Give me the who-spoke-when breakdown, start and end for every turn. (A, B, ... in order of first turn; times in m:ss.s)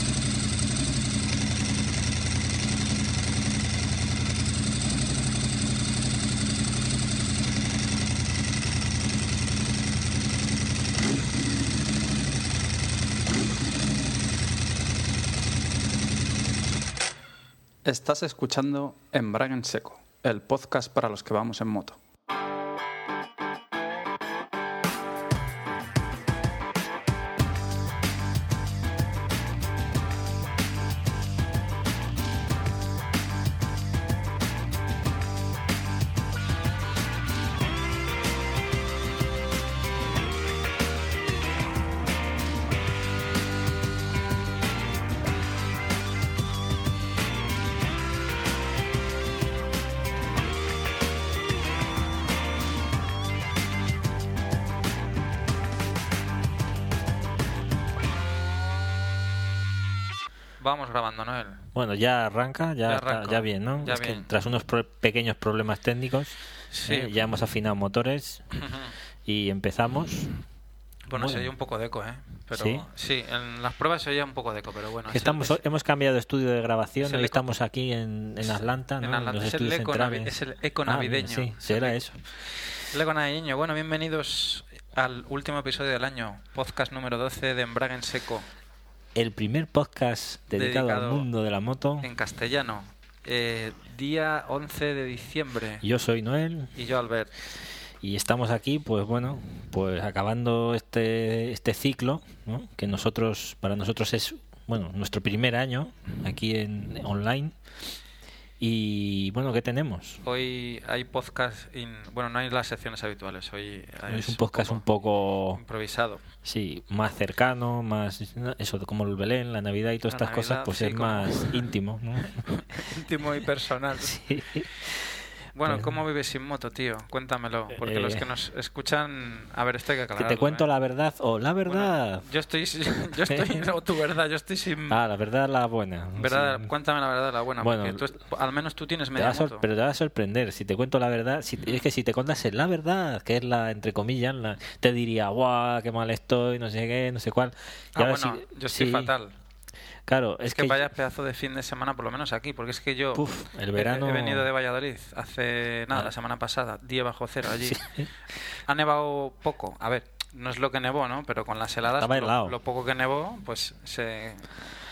0:17.8-0:22.0 A
1:00.6-1:01.6 B
1:01.7-1:08.4 C
1:02.8-1:04.3 B
1:06.7-1:07.1 B
1:08.5-1:08.9 B
1:09.2-1:10.3 C
1:11.1-1:15.6 B
1:11.1-1:11.5 C
1:12.5-1:12.9 C
1:15.1-1:22.2 C
1:17.0-1:17.4 B
1:18.4-1:22.0 B
1:22.9-1:28.5 B
1:29.2-1:32.1 C
1:30.5-1:31.3 B
1:32.0-1:35.8 B
1:35.8-1:36.7 C
1:36.8-1:37.3 B
1:38.0-1:47.5 C
1:48.6-1:50.2 C
1:50.2-1:55.0 B
1:54.1-1:55.6 C
1:55.5-1:56.2 B
1:56.4-2:02.4 C
2:00.1-2:01.7 B
2:02.2-2:04.2 B
2:04.0-2:05.1 C
2:05.5-2:10.7 B
2:05.6-2:06.0 C
2:07.7-2:08.2 C
2:10.1-2:12.2 C
2:11.6-2:15.0 B
2:13.3-2:13.7 C
2:14.9-2:16.7 C
2:16.2-2:19.6 B
2:17.6-2:18.0 C
2:19.2-2:29.1 C
2:27.9-2:29.3 B
2:30.1-2:30.8 C
2:30.4-2:37.8 B
2:33.1-2:34.5 C
2:37.5-2:38.1 C
2:38.6-2:44.6 B
2:41.9-2:42.5 C